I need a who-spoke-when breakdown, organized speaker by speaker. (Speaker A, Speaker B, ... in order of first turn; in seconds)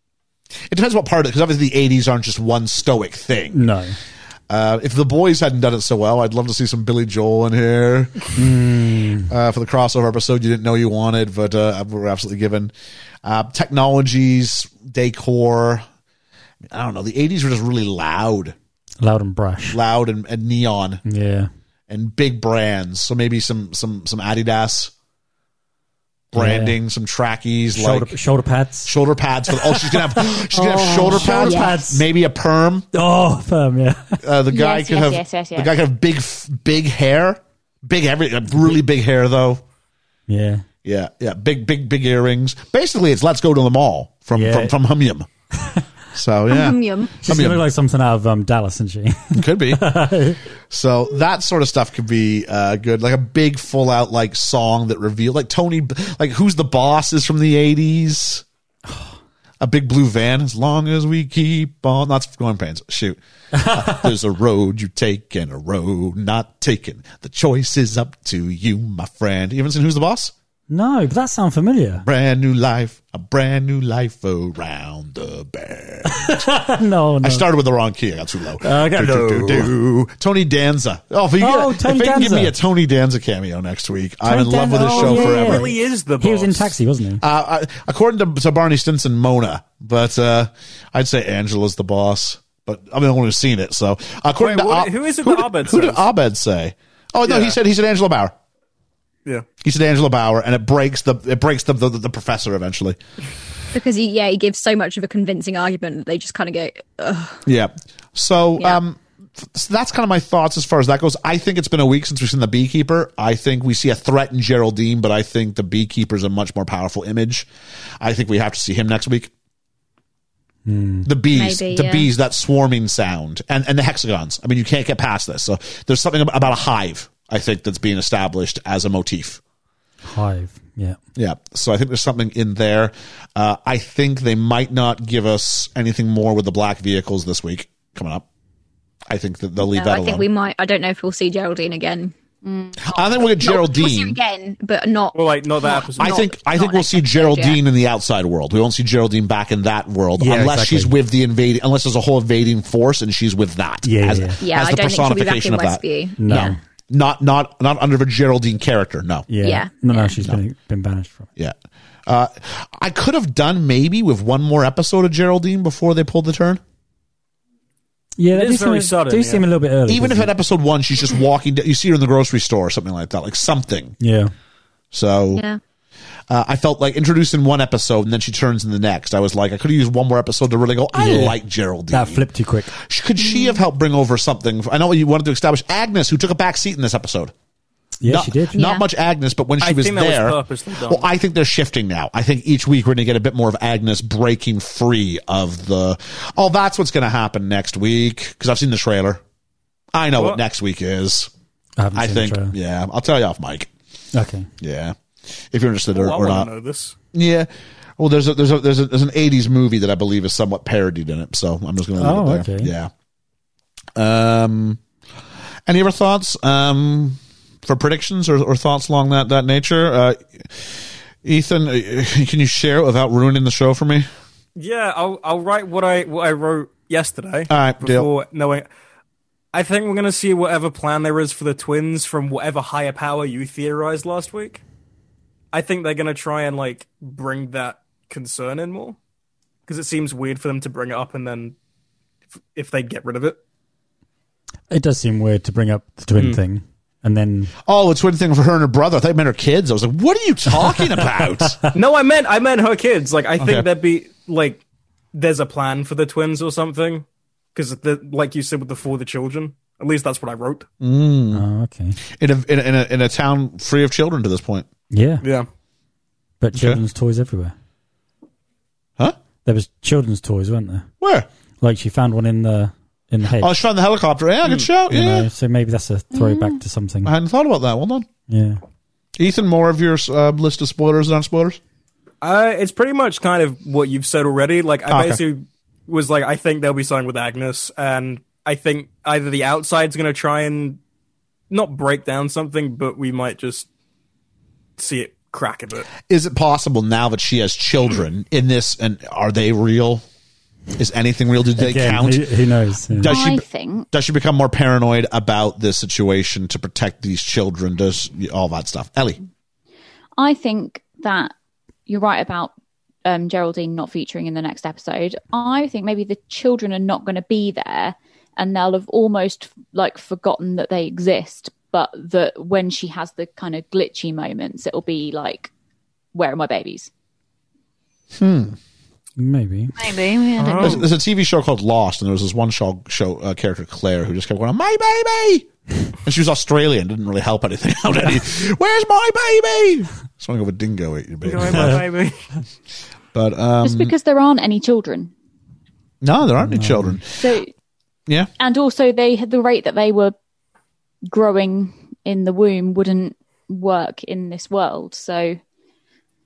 Speaker A: 0.7-3.6, 4.5-8.3, 9.3-12.7, 13.2-15.8, 16.6-18.6, 19.7-21.0, 21.9-24.9, 26.3-28.1, 28.9-32.9, 34.2-39.6, 40.8-45.3, 46.1-47.6, 49.3-49.8, 50.7-58.4, 59.6-70.3, 72.0-76.5, 77.2-85.7, 87.2-98.3, 99.6-103.0, 107.4-117.5, 118.0-119.3, 121.0-129.4, 131.2-138.2, 139.1-140.2, 142.8-144.2, 146.0-159.3, 162.1-166.6, 169.9-174.0, 174.9-175.4, 176.3-187.3, 188.0-199.2, 199.9-201.3, 201.9-203.7, 204.6-206.5, 207.1-212.9, 213.9-214.8, 215.7-224.1, 227.5-228.1, 247.7-251.6, 253.4-253.7, 260.8-261.4, 262.1-264.7, 266.5-266.8, 271.0-271.3, 273.3-275.3, 277.0-278.1, 279.2-281.6, 284.9-285.2, 296.1-300.0, 300.8-302.3, 302.9-309.2, 328.1-328.6, 330.6-341.8, 343.1-343.9, 346.0-347.4
Speaker B: 3.5-4.0, 8.3-9.3, 19.0-19.8, 21.0-21.5, 26.3-26.8, 27.7-28.9, 29.5-32.0, 32.9-34.2, 40.3-40.6, 44.3-44.7, 47.2-50.4, 58.9-59.1, 63.5-64.0, 70.7-72.0, 76.0-77.5, 78.6-79.7, 81.4-82.5, 84.2-87.2, 120.6-121.1, 130.0-131.0, 150.2-150.9, 153.8-154.4, 156.2-156.6, 159.3-161.3, 168.2-170.3, 174.0-174.3, 180.9-181.4, 181.9-182.7, 188.0-188.6, 201.8-202.5, 204.1-204.5, 212.0-212.7, 244.7-247.5, 250.5-251.8, 261.3-262.0, 264.9-265.2, 266.4-267.5, 269.4-270.9, 271.6-273.5, 274.9-277.1, 278.3-278.6, 301.6-303.2, 329.2-329.8, 346.4-347.0
Speaker C: 31.2-31.7, 46.5-47.2, 103.7-107.4, 121.3-122.1, 139.6-142.1, 143.1-147.6, 154.4-156.6, 159.4-160.1, 175.3-175.6, 188.5-188.8, 329.9-330.7
Speaker D: 34.5-35.7, 142.4-142.9, 183.2-183.6, 276.1-276.6, 303.1-303.9, 310.2-311.3, 311.9-312.5, 313.0-325.5, 326.1-326.9, 329.8-330.8, 343.6-345.1, 347.1-347.5, 348.4-350.1, 351.1-355.4
Speaker E: 84.9-86.7, 94.4-96.1, 97.2-97.6, 145.1-146.2, 168.3-169.4, 189.6-191.1, 205.9-206.9, 224.6-228.7, 229.5-234.6, 235.5-239.0, 239.7-241.6, 242.5-243.4, 251.7-254.6, 255.1-260.7, 265.2-265.5, 274.4-274.7, 282.2-290.8, 291.5-293.7, 294.8-295.9, 330.4-330.9, 341.2-342.2